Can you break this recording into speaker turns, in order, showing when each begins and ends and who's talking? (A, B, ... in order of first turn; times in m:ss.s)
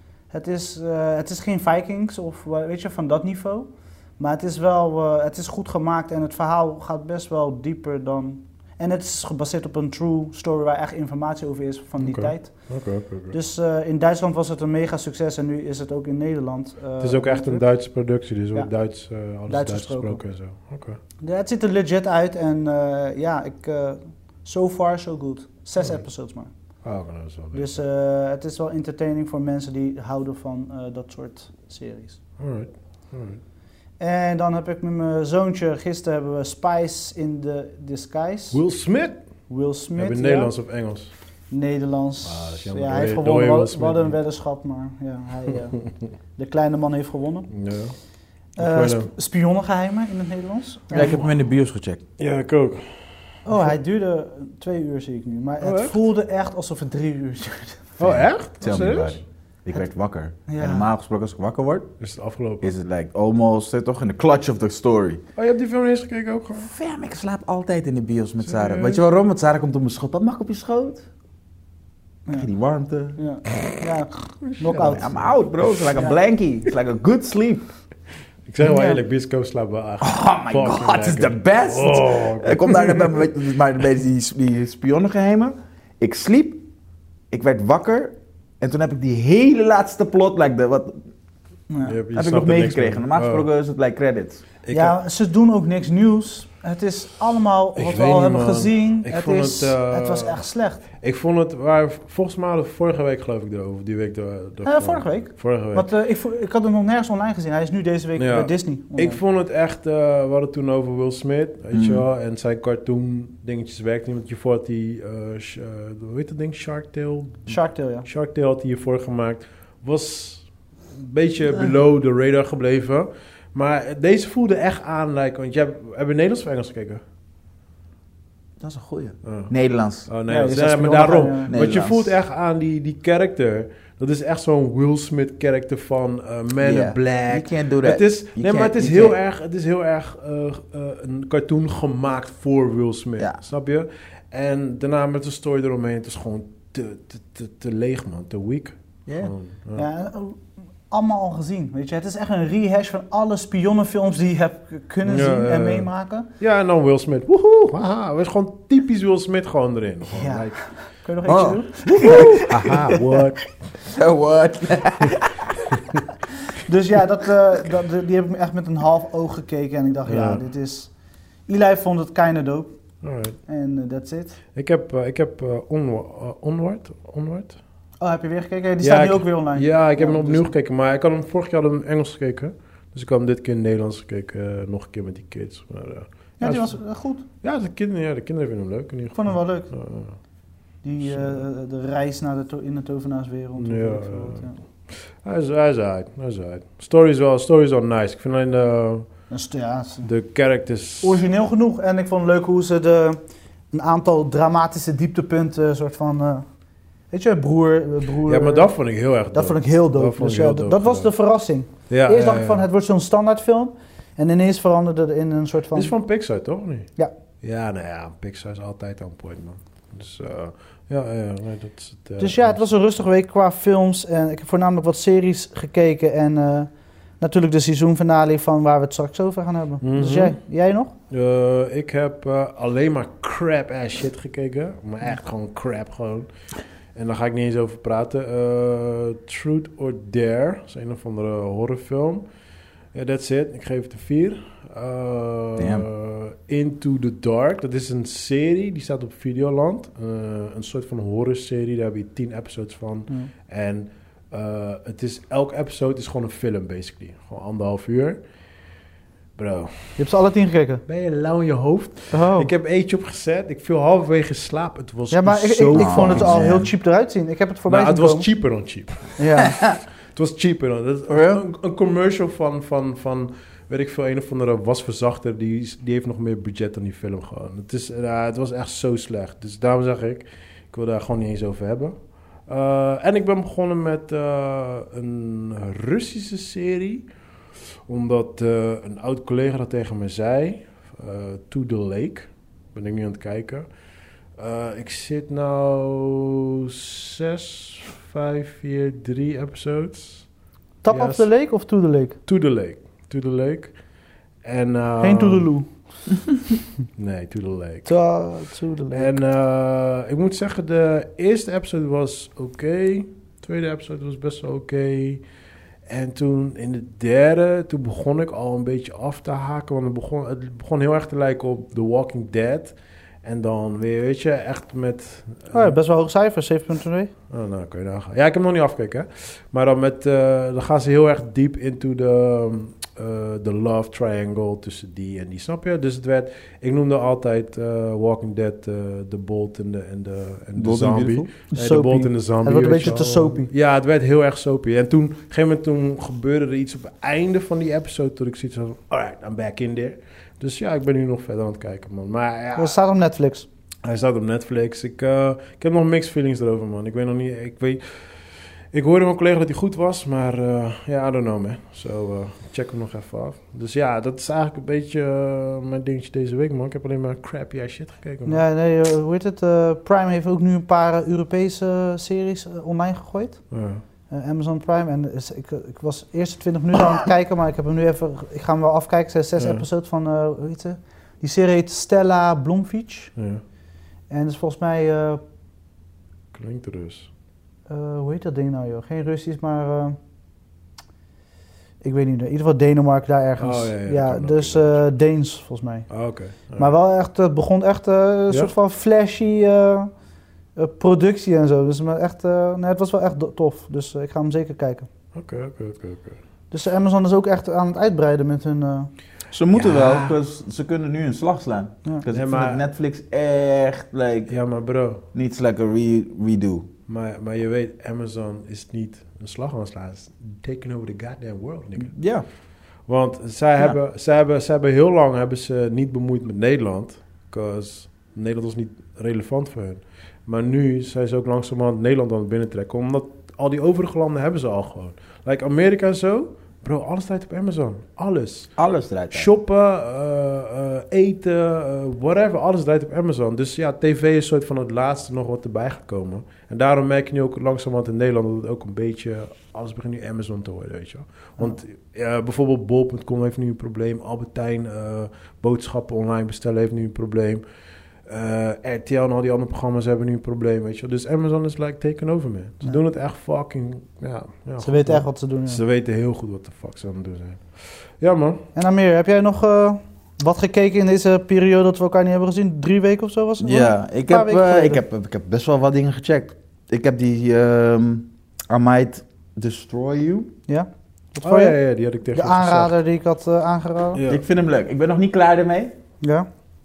0:00.3-0:12.7 A
0:12.0-0:13.4 B
0:13.3-0:17.6 A
0:17.0-0:21.0 B
0:19.5-0:20.2 A
0:21.2-0:26.5 A
0:26.8-0:27.8 B
0:27.5-0:32.2 A
0:32.4-0:33.4 B
0:34.0-0:38.6 A
0:38.5-0:39.2 B
0:39.5-0:40.5 A
0:40.0-0:41.1 B
0:41.5-0:45.8 A
0:42.2-0:44.1 B
0:46.4-0:47.5 A
0:47.5-0:47.9 B
0:48.6-0:51.2 A
0:48.6-0:49.1 B
0:50.9-0:52.0 C
0:52.2-0:53.0 B
0:53.4-0:58.0 A
0:55.6-0:56.0 B
0:58.0-0:59.2 B
0:58.0-1:01.9 C
1:00.5-1:00.9 A
1:02.0-1:02.7 B
1:02.6-1:05.2 C
1:05.4-1:06.7 B
1:06.6-1:11.0 C
1:08.4-1:09.0 B
1:12.3-1:13.2 C
1:13.2-1:15.2 A
1:14.5-1:15.2 B
1:14.8-1:17.7 C
1:15.9-1:16.2 A
1:18.5-1:23.3 B
1:18.6-1:19.0 A
1:20.0-1:26.6 C
1:27.3-1:31.0 C
1:31.7-1:32.0 A
1:31.8-1:33.5 B
1:32.1-1:34.4 C
1:34.6-1:34.9 B
1:34.7-1:40.8 A
1:37.8-1:40.4 B
1:41.0-1:45.9 B
1:44.6-1:49.2 A
1:48.2-2:07.0 B
1:51.7-1:52.0 C
1:57.5-1:58.1 A
2:08.6-2:10.1 C
2:09.2-2:09.5 B
2:10.0-2:29.8 B
2:10.3-2:11.5 A
2:11.5-2:12.1 C
2:16.6-2:19.2 C
2:29.1-2:29.3 C
2:29.8-2:36.3 A
2:35.0-2:35.9 B
2:36.4-2:40.6 B
2:40.1-2:42.5 A
2:41.2-2:43.2 C
2:42.2-2:43.4 B
2:43.8-2:45.5 C
2:46.6-2:50.9 A
2:50.0-2:50.4 B
2:51.5-2:52.8 A
2:53.0-2:53.4 B
2:53.4-2:54.4 A
2:54.5-2:57.6 B
2:58.0-3:00.5 A
2:58.8-3:06.8 B
3:06.4-3:07.2 A
3:07.4-3:10.2 B
3:09.1-3:09.7 A
3:10.8-3:14.6 A
3:11.1-3:11.4 B
3:13.6-3:19.1 B
3:19.3-3:20.1 A
3:20.0-3:21.2 B
3:21.0-3:23.2 A
3:23.7-3:26.4 A
3:27.1-3:28.7 A
3:28.2-3:31.1 B
3:29.3-3:35.9 A
3:31.9-3:32.6 B
3:35.7-3:36.9 B
3:37.4-3:42.6 B
3:42.2-3:50.9 A
3:49.8-3:50.4 B
3:51.1-3:56.3 B
3:56.9-4:02.2 B
4:02.9-4:18.2 B
4:05.6-4:05.9 C
4:19.4-4:20.0 B
4:20.0-4:20.8 A
4:20.9-4:26.4 B
4:22.1-4:22.5 A
4:25.1-4:28.3 A
4:25.7-4:26.7 C
4:27.7-4:29.5 B
4:29.2-4:29.6 A
4:29.5-4:29.8 C
4:30.1-4:47.1 B
4:31.1-4:31.4 C
4:47.9-4:53.7 B
4:54.4-5:00.3 B
5:00.8-5:02.2 A
5:00.9-5:01.3 B
5:02.2-5:03.7 B
5:04.4-5:05.5 B
5:05.0-5:05.7 A
5:07.0-5:07.9 B
5:07.8-5:09.2 A
5:08.9-5:15.2 B
5:15.9-5:25.7 B
5:25.5-5:27.1 A
5:27.3-5:52.8 B
5:40.6-5:41.3 C
5:41.5-5:43.5 A
5:52.6-5:53.4 A
5:53.8-5:57.8 B
5:58.7-6:08.4 B
6:08.2-6:13.4 A
6:13.5-6:13.8 B
6:14.1-6:23.1 A
6:19.4-6:19.6 B
6:23.2-6:23.4 B
6:24.1-6:25.2 A
6:26.3-6:27.1 B
6:27.7-6:30.0 A
6:31.8-6:35.9 A
6:33.4-6:34.8 B
6:35.9-6:36.7 B
6:36.6-6:39.9 A
6:40.6-6:44.9 A
6:45.1-6:46.2 B
6:46.5-6:48.9 A
6:49.3-6:54.4 C
6:49.5-6:50.2 B
6:52.1-6:52.6 B
6:54.3-6:55.0 B
6:55.1-6:56.7 C
6:56.9-7:01.9 B
7:01.8-7:02.2 C
7:02.8-7:18.5 B
7:18.6-7:19.3 C
7:19.1-7:37.4 B
7:38.1-7:48.4 B
7:44.6-7:45.6 A
7:48.5-7:54.8 A
7:53.4-8:00.3 C
8:00.5-8:01.6 A
8:01.2-8:02.8 B
8:02.1-8:04.0 A
8:03.9-8:04.2 B
8:04.1-8:05.7 C
8:06.0-8:06.3 A